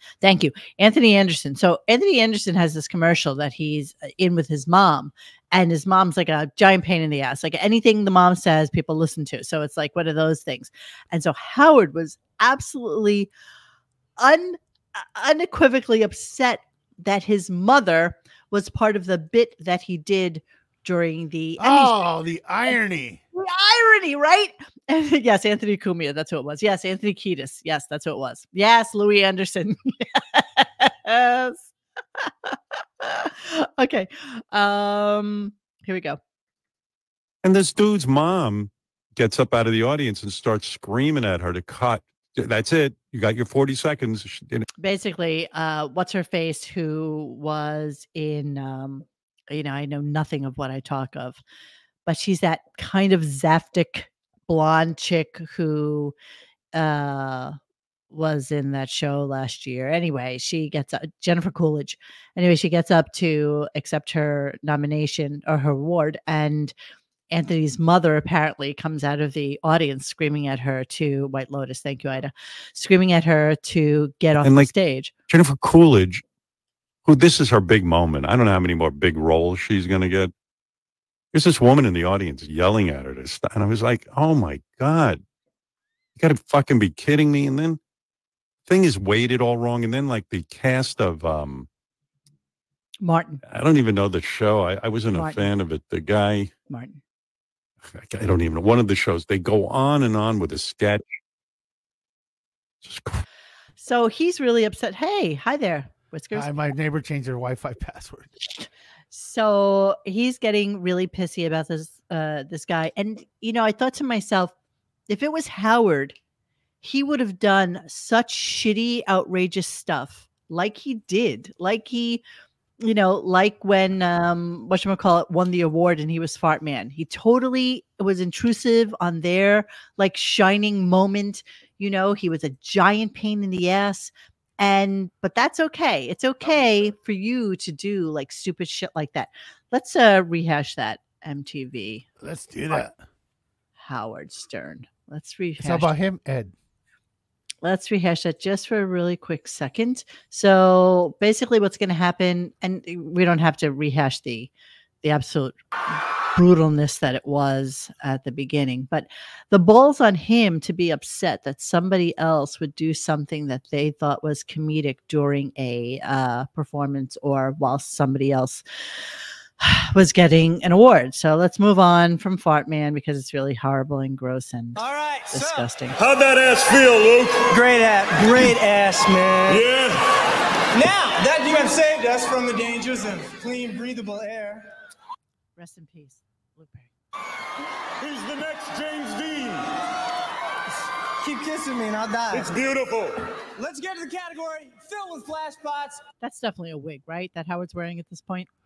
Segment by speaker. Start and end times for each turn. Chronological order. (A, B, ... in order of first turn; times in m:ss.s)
0:00.2-0:13.3 A
0:14.2-0:22.0 A
0:21.6-0:23.2 B
0:23.3-0:36.2 A
0:37.4-0:44.7 C
0:44.8-0:51.4 A
0:52.1-0:56.1 A
0:56.7-0:57.6 A
0:58.1-1:06.7 A
1:07.3-1:15.1 A
1:14.4-1:14.7 C
1:15.3-1:16.2 C
1:17.1-1:20.3 C
1:21.3-1:25.2 C
1:26.2-1:27.8 C
1:28.7-1:31.7 C
1:33.0-1:33.4 A
1:33.5-1:36.5 C
1:35.1-1:35.5 A
1:36.7-1:37.0 A
1:37.9-1:41.0 C
1:42.8-1:43.2 C
1:43.8-1:46.6 A
1:46.3-1:48.3 B
1:48.6-1:54.5 A
1:55.1-1:56.2 A
1:56.8-2:02.2 A
2:02.8-2:22.1 A
2:22.2-2:23.0 B
2:23.8-2:25.9 A
2:25.6-2:26.5 B
2:27.6-2:34.5 A
2:35.0-2:35.6 A
2:36.4-2:48.6 A
2:49.6-2:56.0 A
2:54.8-2:55.7 D
2:56.0-2:57.6 E
2:57.5-2:59.7 D
2:59.5-3:00.0 E
3:00.7-3:04.7 D
3:05.6-3:06.9 A
3:08.0-3:09.7 E
3:11.2-3:12.7 D
3:12.3-3:13.1 E
3:13.6-3:16.0 D
3:16.2-3:18.5 A